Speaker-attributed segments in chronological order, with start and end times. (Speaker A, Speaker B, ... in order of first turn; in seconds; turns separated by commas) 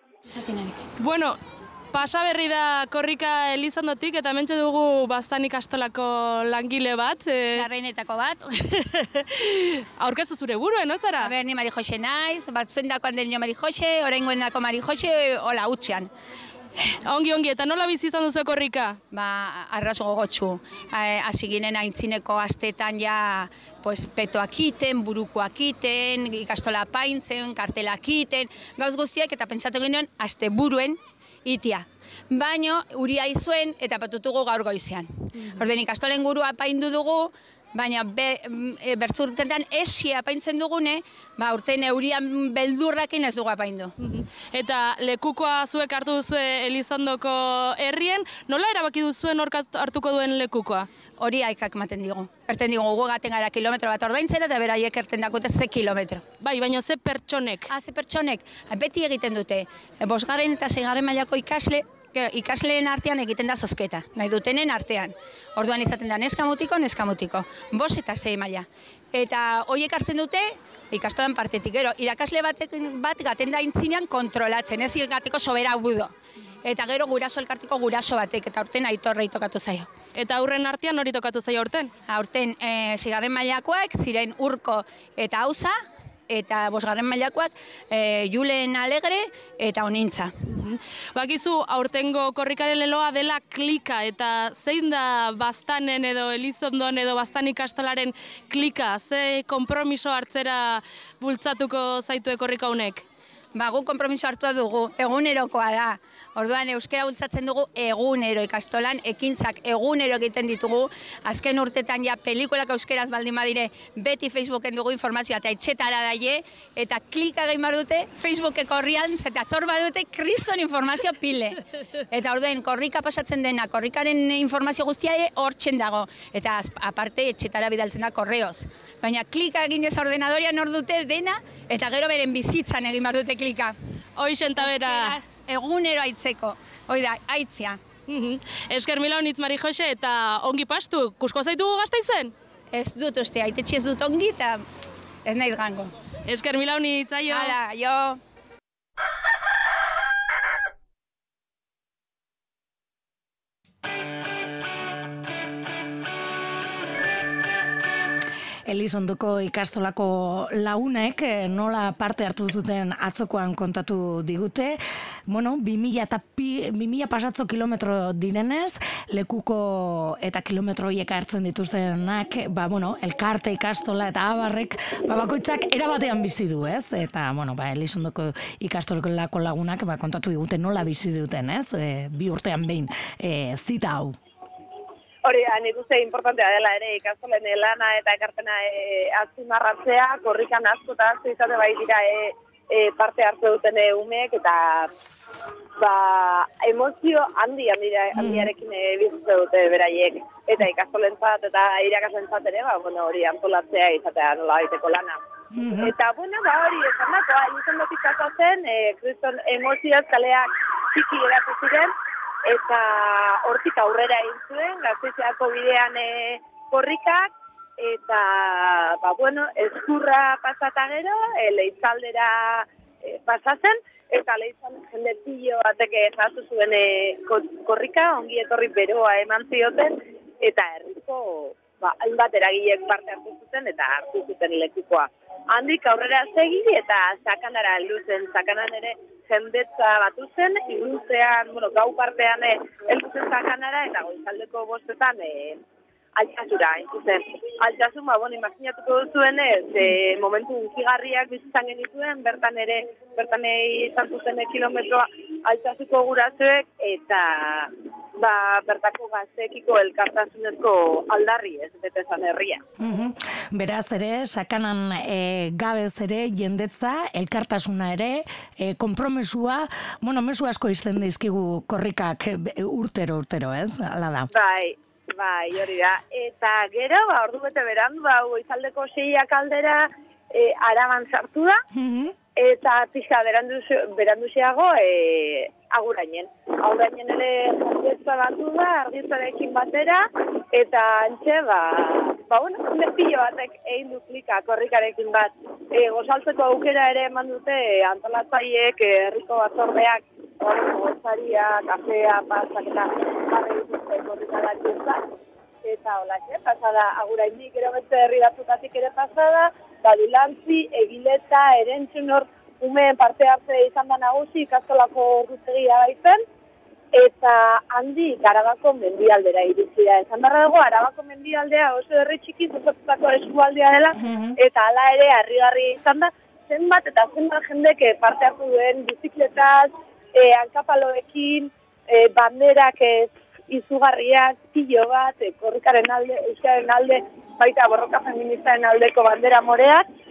Speaker A: 0.3-0.8, Speaker B: 1.0-1.4, Speaker B: 1.9-7.7, Speaker A: 7.5-8.5, Speaker B: 8.7-11.3, Speaker A: 11.2-16.1, Speaker B: 16.9-19.0, Speaker A: 19.1-43.9, Speaker B: 44.0-50.9, Speaker A: 51.2-56.2, Speaker B: 56.4-57.7, Speaker A: 57.7-79.9, Speaker B: 80.2-81.9, Speaker A: 82.1-85.8, Speaker A: 86.3-90.3, Speaker B: 90.5-103.1, Speaker A: 103.5-133.8, Speaker B: 134.2-135.2, Speaker A: 134.6-137.8, Speaker B: 138.1-142.3, Speaker A: 142.7-144.6, Speaker A: 145.2-145.9, Speaker B: 146.3-147.6, Speaker A: 147.3-148.2, Speaker C: 158.7-184.2, Speaker D: 185.2-194.9, Speaker D: 195.8-205.2, Speaker C: 198.2-198.5, Speaker C: 205.6-205.9, Speaker D: 205.8-211.9, Speaker D: 212.5-245.6, Speaker D: 246.2-262.6, Speaker C: 262.8-274.3, Speaker D: 274.3-281.6, Speaker C: 281.7-282.1, Speaker D: 282.4-305.0, Speaker D: 305.6-316.2, Speaker D: 316.9-339.9, Speaker C: 324.0-324.3